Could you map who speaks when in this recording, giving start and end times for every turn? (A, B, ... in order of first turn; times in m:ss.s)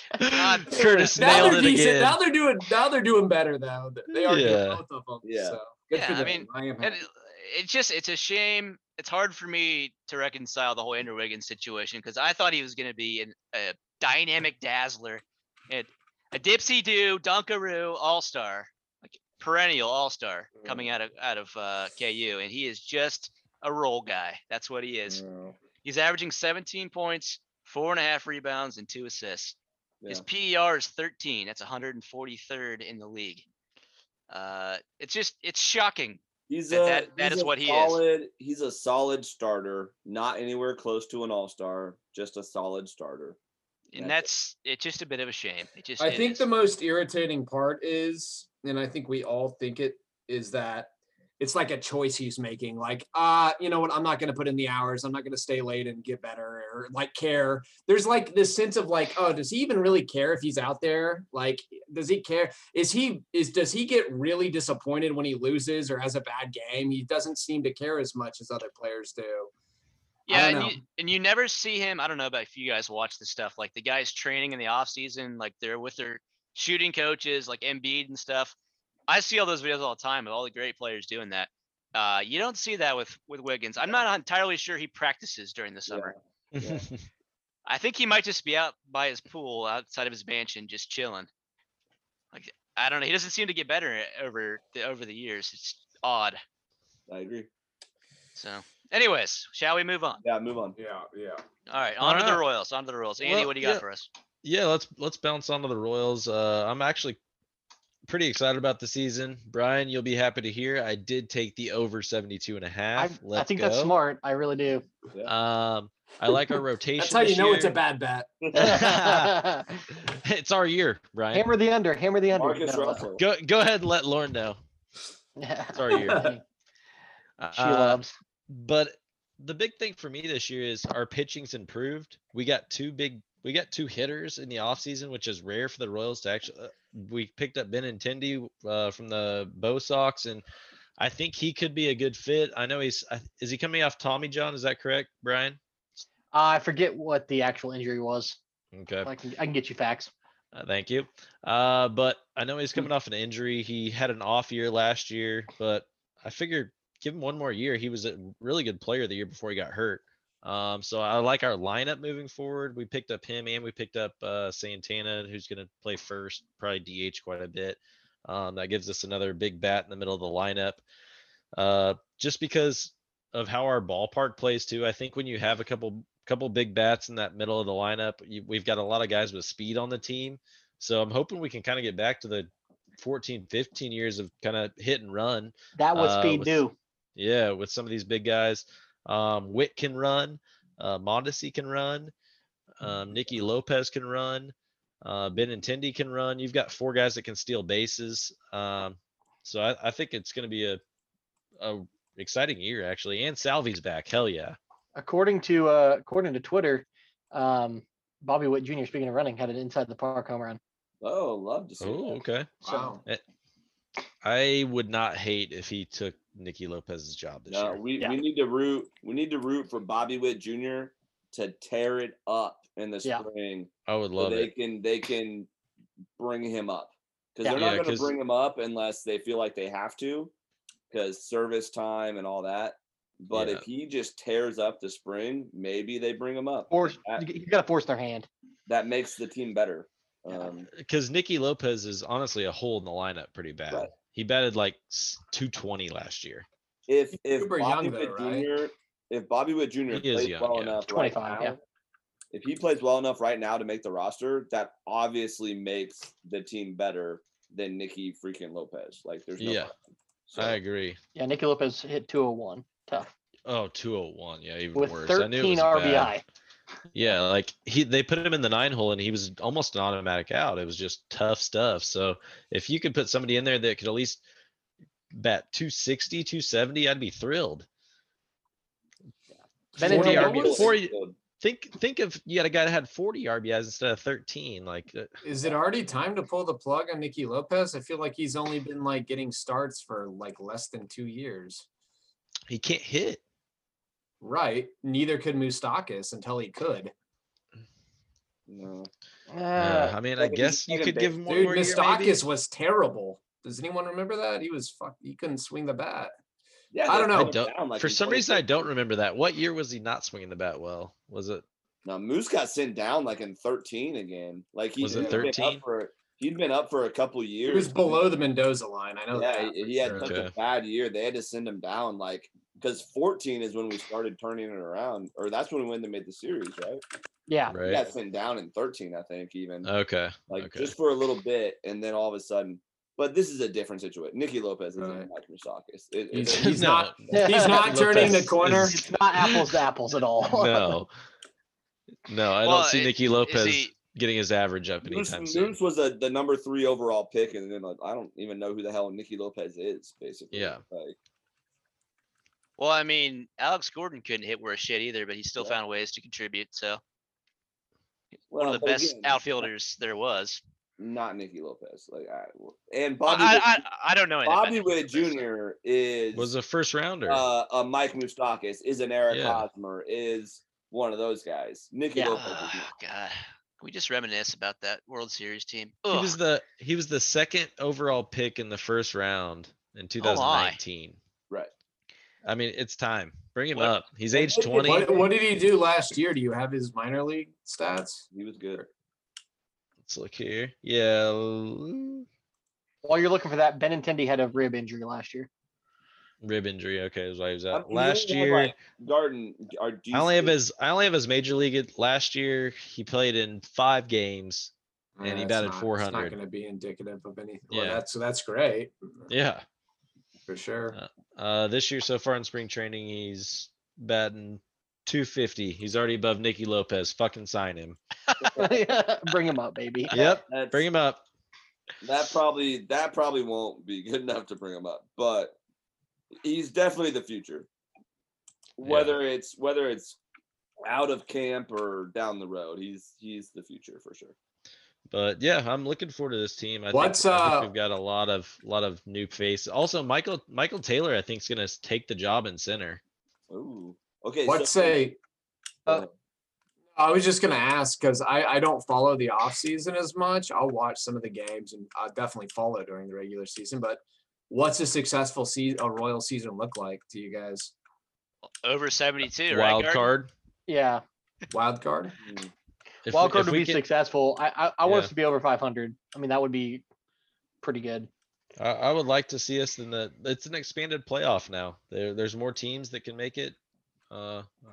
0:00.2-0:02.2 A
0:00.3-0:01.6 B
0:00.8-0:07.0 C
0:04.1-0:04.8 A
0:05.2-0:05.6 D
0:05.9-0:25.2 B
0:25.1-0:25.6 C
0:25.8-0:29.6 B
0:30.1-0:33.5 B
0:34.3-0:38.0 B
0:36.5-0:43.4 D
0:43.9-0:46.5 B
0:44.0-0:44.3 D
0:46.0-1:09.5 C
1:10.3-1:18.6 B
1:10.3-1:10.8 C
1:19.1-1:26.2 B
1:25.9-1:26.9 D
1:26.6-1:27.0 A
1:27.7-1:31.3 B
1:32.3-1:36.4 B
1:37.1-1:37.5 D
1:38.4-1:40.2 B
1:40.2-1:40.8 D
1:40.8-1:41.4 C
1:41.7-1:44.1 B
1:42.0-1:42.4 A
1:43.2-1:43.8 A
1:44.4-1:47.2 A
1:48.1-1:53.9 A
1:53.0-1:54.9 E
1:55.2-1:57.8 A
1:57.0-1:58.4 C
1:58.4-1:58.8 D
1:58.5-1:59.8 E
1:58.5-2:01.5 A
2:01.3-2:03.0 E
2:02.3-2:03.2 D
2:03.2-2:04.6 A
2:05.4-2:06.4 E
2:05.7-2:06.3 A
2:05.9-2:06.2 C
2:07.4-2:20.4 A
2:07.6-2:08.2 E
2:21.0-2:25.6 A
2:26.3-2:28.4 E
2:28.7-2:29.1 A
2:29.0-2:30.1 E
2:30.5-2:50.8 A
2:51.6-3:06.6 A
3:05.8-3:06.8 E
3:07.2-3:12.1 A
3:12.8-3:20.8 A
3:21.6-3:24.6 A
3:25.0-3:30.6 E
3:31.0-3:32.2 D
3:31.8-3:33.2 A
3:32.6-3:33.0 C
3:32.6-3:33.0 E
3:34.2-3:37.8 A
3:37.5-3:45.5 D
3:43.9-3:44.5 A
3:46.2-3:50.3 D
3:47.5-3:48.2 A
3:50.9-3:57.2 D
3:53.3-3:53.6 A
3:56.7-3:58.3 E
3:58.7-4:00.7 D
4:00.7-4:06.5 A
4:06.9-4:11.6 D
4:07.2-4:08.5 C
4:09.9-4:10.8 A
4:10.9-4:11.6 E
4:12.3-4:20.6 D
4:19.4-4:19.7 A
4:20.4-4:21.0 A
4:21.2-4:23.1 E
4:23.5-4:26.1 A
4:24.8-4:26.2 E
4:26.9-4:34.2 A
4:35.1-4:37.7 A
4:39.8-4:40.8 C
4:39.8-4:40.5 E
4:39.8-4:41.2 D
4:39.8-4:45.2 A
4:45.2-4:51.7 C
4:52.5-4:53.2 A
4:54.2-4:56.9 C
4:58.5-4:58.9 D
4:59.3-5:00.0 E
4:59.6-5:02.2 A
5:00.2-5:01.1 D
5:01.3-5:06.1 C
5:06.7-5:08.7 D
5:06.9-5:07.4 C
5:07.1-5:11.4 A
5:11.8-5:18.1 D
5:14.8-5:15.6 A
5:14.8-5:15.4 C
5:17.4-5:20.1 C
5:19.1-5:26.8 D
5:19.9-5:20.3 A
5:27.3-5:27.6 E
5:27.5-5:27.8 A
5:27.6-5:29.7 D
5:29.6-5:30.7 A
5:30.3-5:36.6 D
5:34.8-5:35.1 C
5:36.1-5:38.8 C
5:36.3-5:39.6 A
5:37.1-5:40.8 E
5:40.2-5:40.9 A
5:42.0-5:45.6 A
5:42.4-5:43.7 B
5:44.8-5:51.0 D
5:50.3-5:50.6 A
5:52.6-5:56.8 B
5:58.3-5:59.2 D
5:58.4-6:00.4 B
6:00.8-6:03.6 D
6:03.0-6:05.3 B
6:04.2-6:06.3 D
6:06.1-6:07.3 A
6:07.1-6:12.7 D
6:09.1-6:09.5 A
6:12.0-6:12.2 E
6:12.1-6:16.2 B
6:15.9-6:21.0 A
6:20.0-6:20.6 B
6:22.2-6:25.0 A
6:24.1-6:24.8 D
6:24.5-6:28.7 C
6:28.1-6:28.6 D
6:29.9-6:32.1 A
6:32.8-6:35.3 E
6:36.2-6:38.6 A
6:37.5-6:40.4 D
6:39.9-6:44.5 A
6:45.0-6:49.1 C
6:45.0-6:46.2 A
6:47.5-6:47.8 A
6:49.1-6:49.4 A
6:50.3-6:50.8 C
6:50.7-6:57.8 A
6:58.2-6:58.6 D
6:58.4-7:00.0 E
6:59.9-7:00.6 D
6:59.9-7:01.0 A
7:01.8-7:05.4 D
7:06.2-7:07.5 D
7:08.6-7:10.0 D
7:08.6-7:09.0 A
7:10.6-7:14.2 D
7:14.9-7:22.8 A
7:16.7-7:17.5 C
7:23.3-7:24.8 D
7:24.3-7:25.0 C
7:26.8-7:37.5 C
7:38.4-7:39.9 B
7:39.3-7:40.1 A
7:40.5-7:40.8 E
7:41.3-7:42.0 C
7:42.0-7:42.3 D
7:42.8-7:43.6 A
7:42.9-7:46.6 E
7:44.6-7:44.9 A
7:47.4-7:47.9 E
7:48.4-7:53.4 A
7:53.9-7:54.3 A